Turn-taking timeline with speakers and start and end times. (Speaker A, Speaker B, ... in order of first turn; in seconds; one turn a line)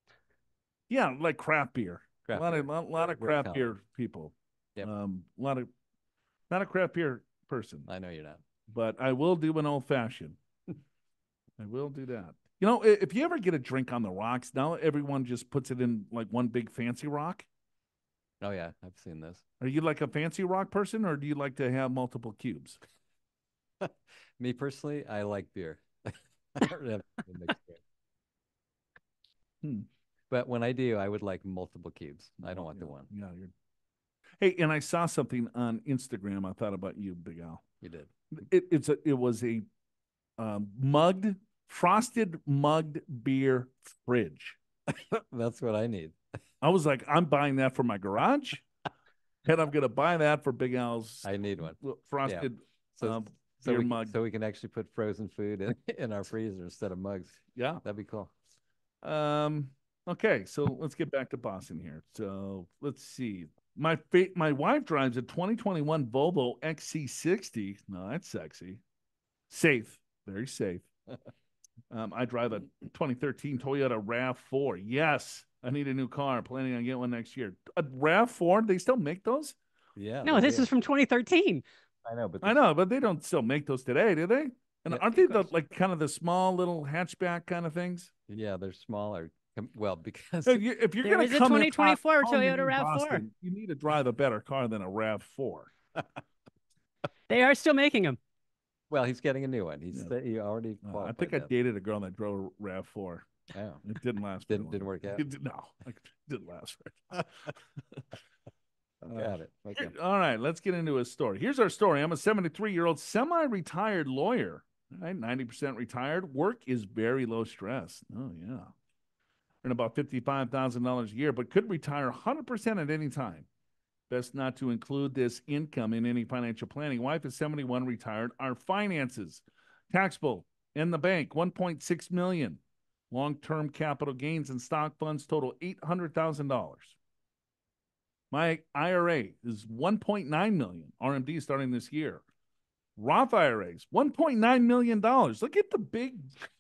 Speaker A: 0.9-5.7
Speaker B: 2.2-3.6
Speaker A: 6.5-7.9
Speaker B: 7.9-8.4
Speaker A: 8.7-10.4
Speaker A: 11.6-17.5
Speaker B: 18.4-19.4
Speaker A: 19.6-22.8
Speaker B: 23.8-27.8
Speaker B: 30.3-33.1
Speaker A: 32.4-33.5
Speaker A: 34.4-37.6
Speaker B: 37.8-38.1
Speaker A: 38.4-39.7
Speaker A: 40.4-44.6
Speaker B: 44.9-46.2
Speaker A: 46.6-48.7
Speaker A: 49.5-54.1
Speaker B: 51.2-58.3
Speaker A: 57.5-57.8
Speaker A: 59.0-68.8
Speaker A: 69.5-70.9
Speaker A: 71.9-79.6
Speaker B: 80.0-80.7
Speaker C: 80.2-81.6
Speaker B: 82.0-82.6
Speaker A: 82.4-88.1
Speaker B: 84.9-85.5
Speaker B: 88.3-90.6
Speaker A: 90.5-95.7
Speaker C: 91.0-93.2
Speaker C: 97.3-98.2
Speaker B: 98.9-101.5
Speaker A: 100.8-103.3
Speaker B: 103.5-103.8
Speaker A: 103.8-108.0
Speaker B: 104.5-105.2
Speaker A: 109.0-118.8
Speaker B: 109.1-109.9
Speaker A: 119.6-123.5
Speaker A: 124.1-137.0
Speaker A: 138.3-142.2
Speaker A: 143.0-146.4